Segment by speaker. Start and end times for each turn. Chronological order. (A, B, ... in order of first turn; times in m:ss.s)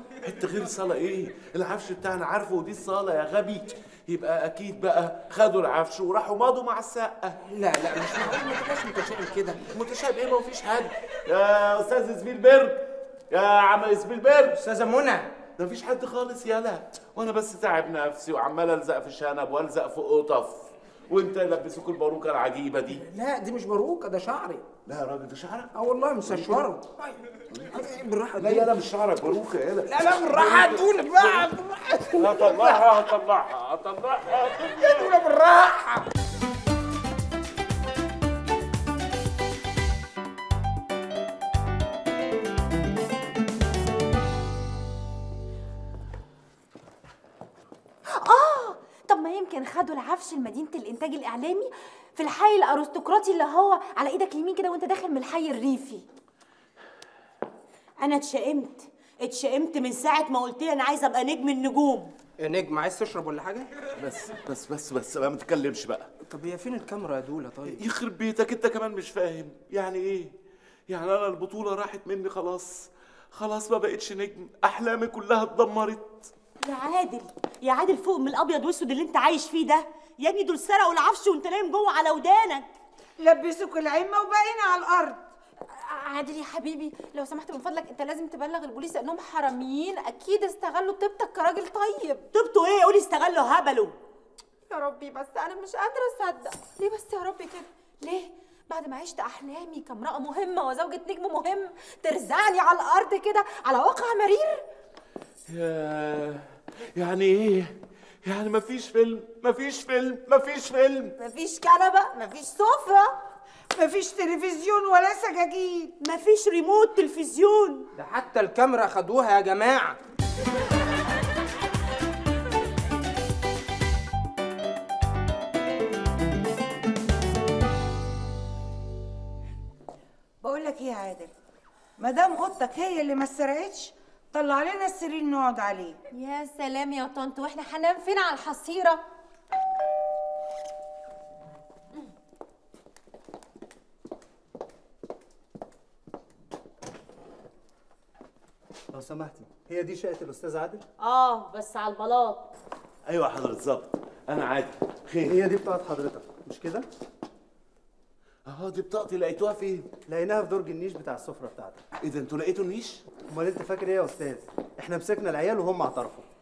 0:00.2-0:07.4 A
0:07.5-0:09.6 B
0:09.7-0:14.6 A
0:14.5-0:15.3 B
0:15.6-0:23.0 A
0:22.9-0:24.6 B
0:24.8-0:25.7 A
0:25.7-0:27.2 B
0:26.2-0:26.7 A
0:27.7-0:28.7 B
0:28.4-0:31.5 A
0:29.9-0:32.8 B
0:32.2-0:35.1 A
0:34.8-0:36.1 B
0:48.1-0:56.0 C
0:58.0-1:02.1 D
1:02.4-1:03.7 B
1:04.0-1:06.1 A
1:06.3-1:07.8 B
1:07.7-1:10.3 A
1:10.9-1:16.3 A
1:16.6-1:22.7 D
1:23.2-1:25.2 E
1:25.8-1:32.3 C
1:32.3-1:33.9 D
1:34.7-1:44.6 C
1:45.5-1:51.2 A
1:51.2-1:53.2 E
1:53.7-1:55.9 E
1:56.0-1:57.8 D
1:57.9-2:00.0 B
2:10.4-2:11.3 E
2:12.0-2:16.0 E
2:16.1-2:19.0 C
2:28.9-2:30.8 F
2:31.0-2:32.5 D
2:33.1-2:35.4 A
2:35.2-2:36.8 F
2:38.4-2:39.9 A
2:40.1-2:41.8 F
2:42.0-2:43.0 A
2:43.3-2:46.2 F